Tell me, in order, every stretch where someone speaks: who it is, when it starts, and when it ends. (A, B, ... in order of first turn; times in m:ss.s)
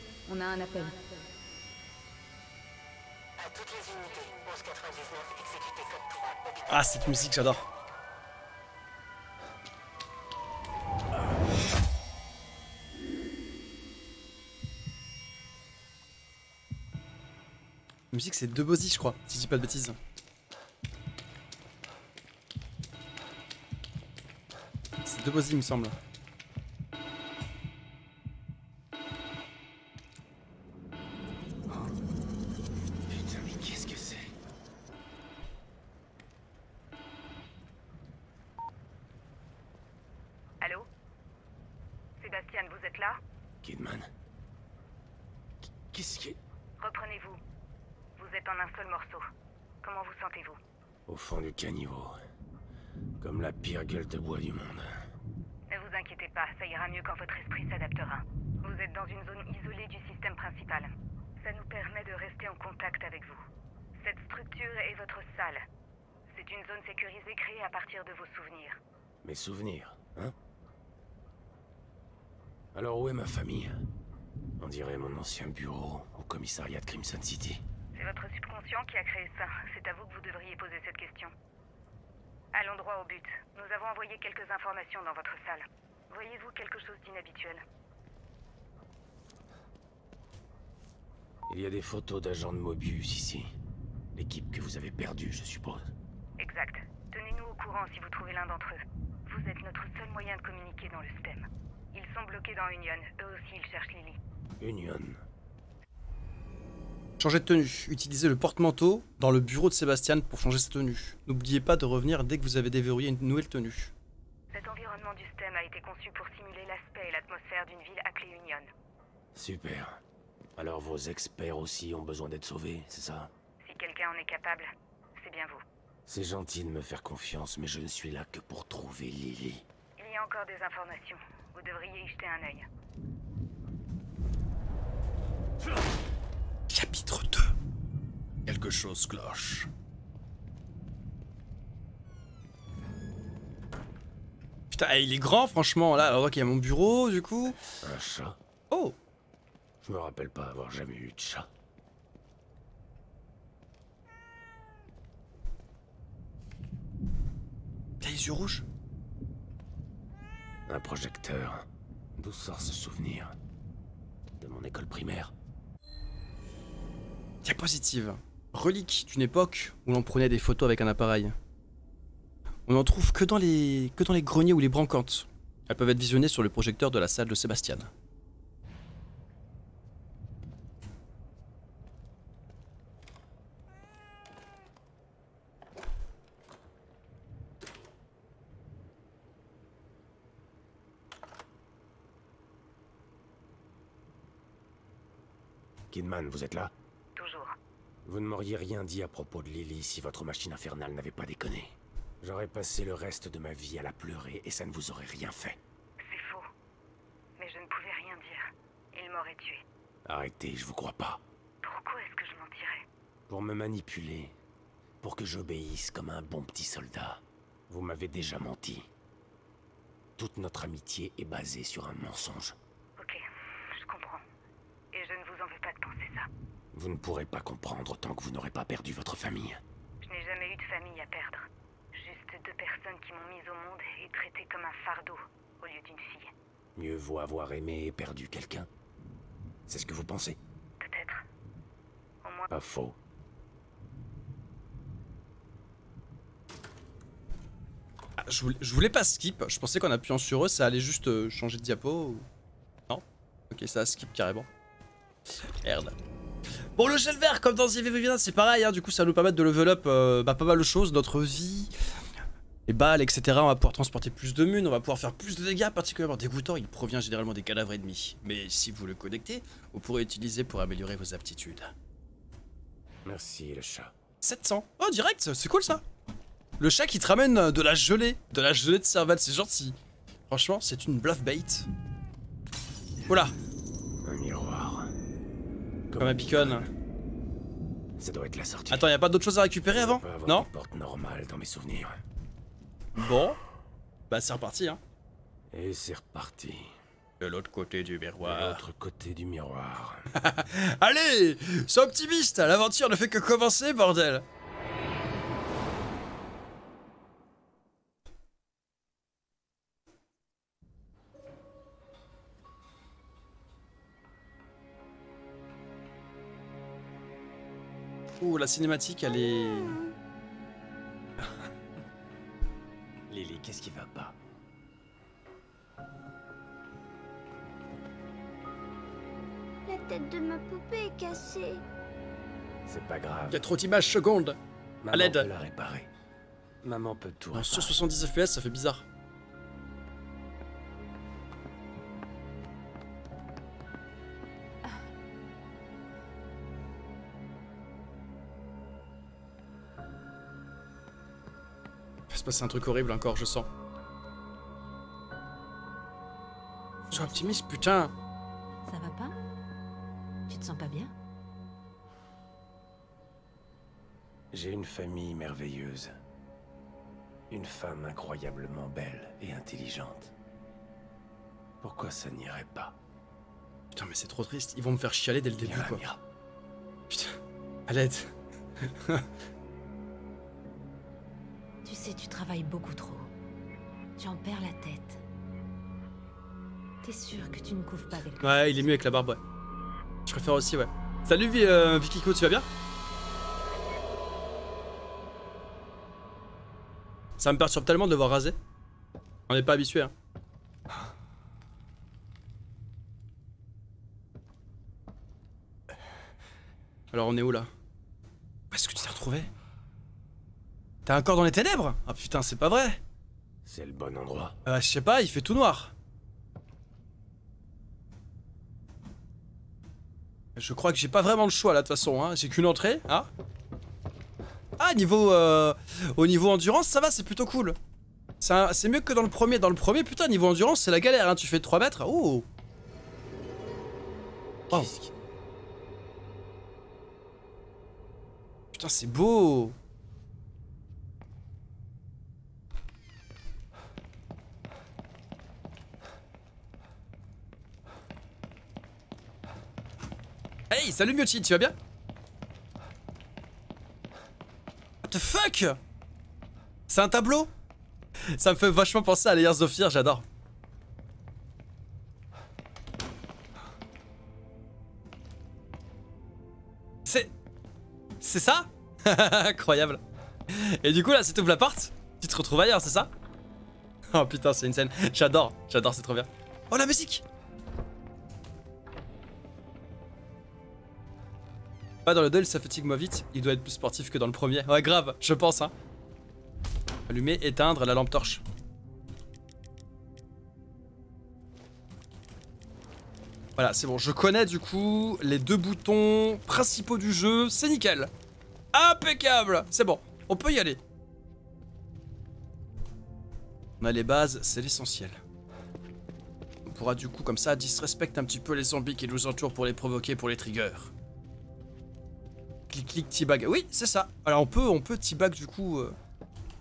0:00.3-0:01.2 A
0:06.7-0:07.6 B
0:18.1-0:20.0 B
0:25.0-0:25.9 B
0:33.1-0:34.3 C
0:40.6-0:40.9 A
0:42.2-0:43.2 A
0:43.6-0:44.1 C
0:45.9-0:46.4 C
0:46.8-0:47.4 A
0:48.2-0:49.3 A
0:49.8-0:50.6 A
0:51.1-0:52.2 C
0:53.2-0:55.0 C
0:55.7-1:03.4 A
1:04.0-1:05.6 A
1:06.3-1:08.8 A
1:09.2-1:10.3 C
1:12.7-1:13.8 C
1:14.6-1:17.6 C
1:17.9-1:21.3 A
1:22.5-1:27.6 A
1:31.5-1:33.5 C
1:34.2-1:35.9 C
1:36.4-1:44.2 A
1:44.6-1:45.2 C
1:47.2-1:53.9 B
1:54.5-1:58.7 A
1:59.3-2:00.0 C
2:00.6-2:03.3 C
2:03.6-2:05.6 A
2:06.1-2:09.6 C
2:10.0-2:12.7 A
2:16.7-2:17.5 B
2:18.4-2:19.7 B
2:24.7-2:27.6 B
2:27.8-2:28.4 C
2:29.8-2:31.5 C
2:38.0-2:38.6 B
2:40.7-2:41.6 C
2:42.2-2:43.3 C
2:44.4-2:45.3 C
2:47.4-2:51.3 B
2:52.7-2:57.9 B
3:15.9-3:16.7 C
3:17.2-3:17.5 A
3:18.0-3:25.6 C
3:26.0-3:26.5 A
3:27.4-3:29.6 A
3:30.0-3:31.2 C
3:31.6-3:32.8 A
3:33.3-3:34.3 C
3:35.0-3:38.8 C
3:40.2-3:42.6 C
3:43.0-3:44.2 A
3:44.9-3:46.3 A
3:46.7-3:49.6 C
3:50.0-3:56.3 A
3:56.8-3:58.7 C
3:59.7-4:00.4 C
4:00.8-4:01.2 A
4:02.2-4:02.5 A
4:02.5-4:03.0 C
4:08.2-4:12.2 B
4:12.9-4:14.5 B
4:15.6-4:16.0 B
4:16.8-4:21.7 B
4:22.7-4:31.7 B
4:33.0-4:33.9 C
4:34.2-4:35.8 B
4:36.6-4:39.8 B
4:40.3-4:41.7 B
4:43.1-4:43.3 B
4:44.0-4:44.9 C
4:45.9-4:46.7 C
4:46.0-4:46.6 B
4:48.0-4:48.9 C
4:48.7-4:50.5 B
4:49.7-4:52.0 C
4:53.0-4:53.4 B
4:54.1-4:54.8 B
4:55.5-4:56.7 C
4:57.2-4:58.6 B
4:58.2-5:00.1 C
5:00.1-5:04.2 B
5:18.2-5:19.8 B
5:23.1-5:24.1 C
5:29.6-5:31.6 D
5:32.7-5:33.4 C
5:33.3-5:34.4 B
5:34.8-5:35.9 C
5:34.9-5:35.3 B
5:36.6-5:37.8 C
5:37.3-5:38.8 B
5:52.1-5:53.5 B
5:56.9-5:57.9 B
5:58.6-5:59.2 E
6:00.3-6:00.9 E
6:04.3-6:05.9 C
6:07.3-6:10.1 C
6:11.6-6:12.8 C
6:13.7-6:15.8 B
6:15.4-6:16.0 C
6:16.9-6:19.0 B
6:21.6-6:23.1 E
6:24.0-6:25.0 E
6:26.8-6:28.7 E
6:28.2-6:29.2 B
6:30.0-6:32.5 B
6:37.2-6:38.4 B
6:39.3-6:39.9 B
6:46.9-6:47.5 B
6:48.5-6:49.3 B
6:50.8-6:52.8 B
6:53.4-6:54.4 C
6:54.4-6:55.7 B
7:00.4-7:03.1 B
7:04.6-7:07.6 B
7:08.2-7:12.2 B
7:14.5-7:14.9 C
7:18.5-7:19.5 B
7:30.5-7:31.5 B
7:34.8-7:35.6 B
7:36.7-7:37.3 B
7:38.1-7:40.0 B
7:46.8-7:47.1 B
7:48.0-7:52.9 B
7:53.9-7:57.0 B
8:01.8-8:05.5 B
8:06.9-8:08.2 B
8:13.4-8:17.9 B
8:18.5-8:20.6 B
8:23.6-8:25.0 B
8:26.4-8:30.7 B
8:32.5-8:35.7 B